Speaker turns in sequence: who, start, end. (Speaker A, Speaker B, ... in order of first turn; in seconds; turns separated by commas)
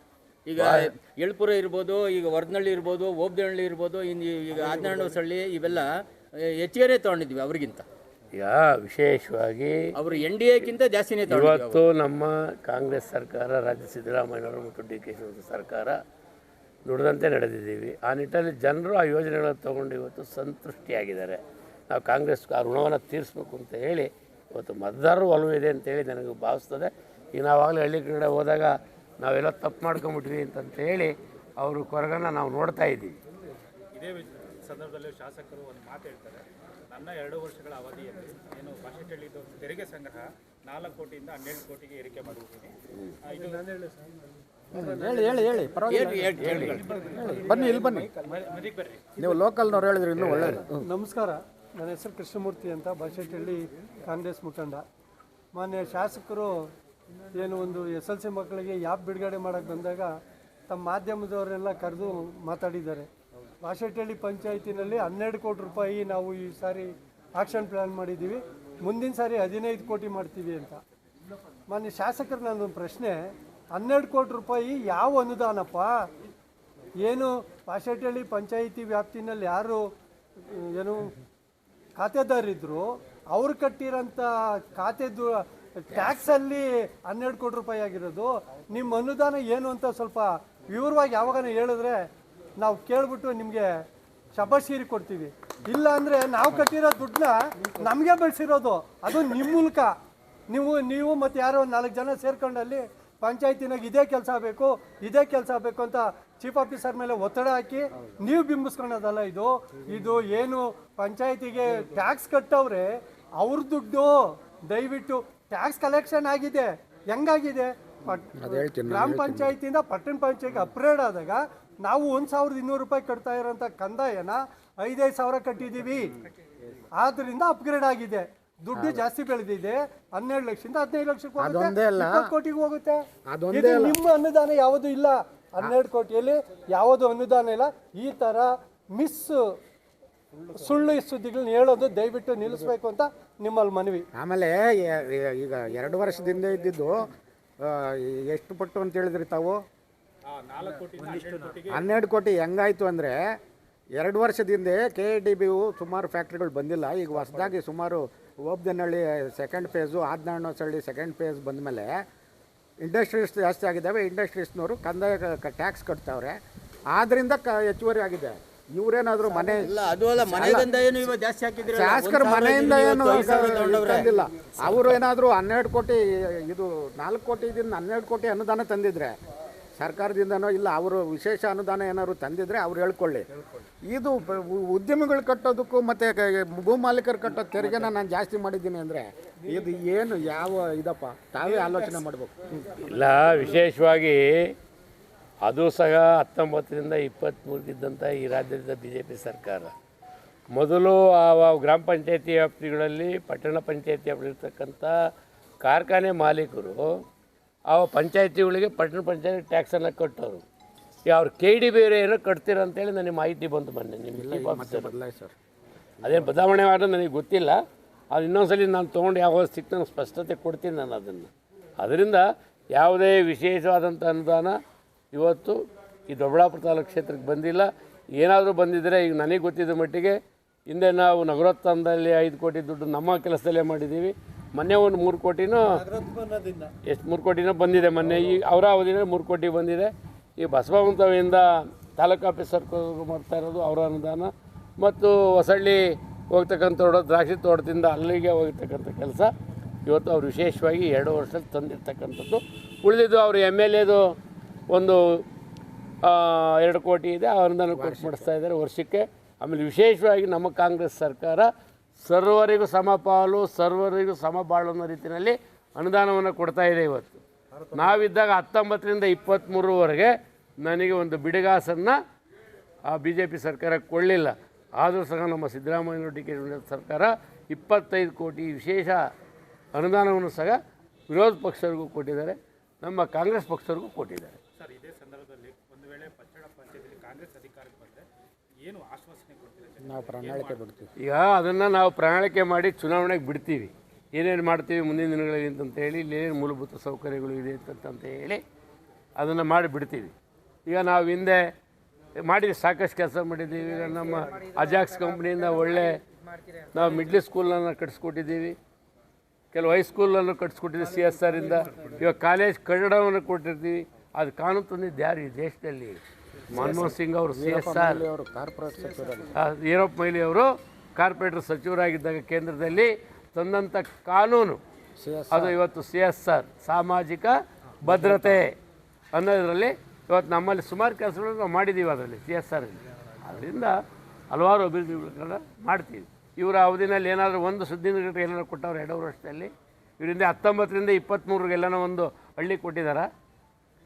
Speaker A: 0.5-5.9, Speaker B: 0.6-0.9, Speaker A: 6.4-7.8, Speaker B: 8.3-9.8, Speaker A: 9.9-11.8, Speaker B: 11.3-16.0, Speaker B: 16.9-33.2, Speaker C: 34.0-44.0, Speaker D: 44.7-48.1, Speaker A: 45.9-47.0, Speaker C: 47.0-49.1, Speaker D: 49.2-50.9, Speaker B: 50.2-50.6, Speaker E: 50.8-54.8, Speaker E: 55.5-56.6, Speaker E: 57.4-60.1, Speaker E: 60.7-63.1, Speaker E: 63.6-70.8, Speaker E: 71.7-75.9, Speaker E: 77.0-79.8, Speaker E: 80.4-81.1, Speaker E: 82.0-92.1, Speaker E: 92.6-93.8, Speaker E: 94.3-99.9, Speaker E: 100.5-126.1, Speaker D: 118.4-119.6, Speaker E: 127.0-139.4, Speaker D: 128.7-129.1, Speaker D: 131.4-132.3, Speaker D: 133.3-134.0, Speaker E: 140.4-144.1, Speaker D: 144.2-149.6, Speaker C: 150.3-151.8, Speaker D: 151.7-153.2, Speaker D: 154.0-162.0, Speaker D: 162.8-166.4, Speaker D: 166.9-170.7, Speaker A: 169.3-174.1, Speaker D: 171.7-179.1, Speaker A: 174.7-175.0, Speaker D: 179.8-183.2, Speaker D: 183.9-192.8, Speaker B: 192.8-194.2, Speaker B: 195.4-199.7, Speaker B: 200.5-204.9, Speaker B: 205.6-206.9, Speaker B: 207.7-210.4, Speaker B: 211.1-214.9, Speaker D: 214.2-215.3, Speaker D: 216.0-216.3, Speaker B: 216.0-217.6, Speaker B: 218.1-224.6, Speaker B: 225.1-225.6, Speaker B: 226.1-235.8, Speaker E: 235.8-236.7, Speaker B: 236.8-249.3, Speaker B: 249.9-254.0, Speaker B: 254.7-255.2, Speaker B: 256.0-267.2, Speaker D: 257.7-258.3, Speaker B: 267.7-272.0, Speaker B: 272.9-279.0, Speaker B: 279.8-284.4, Speaker C: 284.6-288.1, Speaker C: 288.6-290.6, Speaker D: 289.8-290.9, Speaker B: 291.0-298.4, Speaker B: 299.2-300.1, Speaker B: 300.7-301.4, Speaker B: 302.2-306.0, Speaker B: 306.7-308.6, Speaker B: 309.5-318.1, Speaker D: 316.5-319.3, Speaker B: 319.4-324.6, Speaker D: 325.0-325.6, Speaker B: 325.3-328.6, Speaker D: 327.8-328.4, Speaker B: 329.1-333.8, Speaker B: 334.3-343.1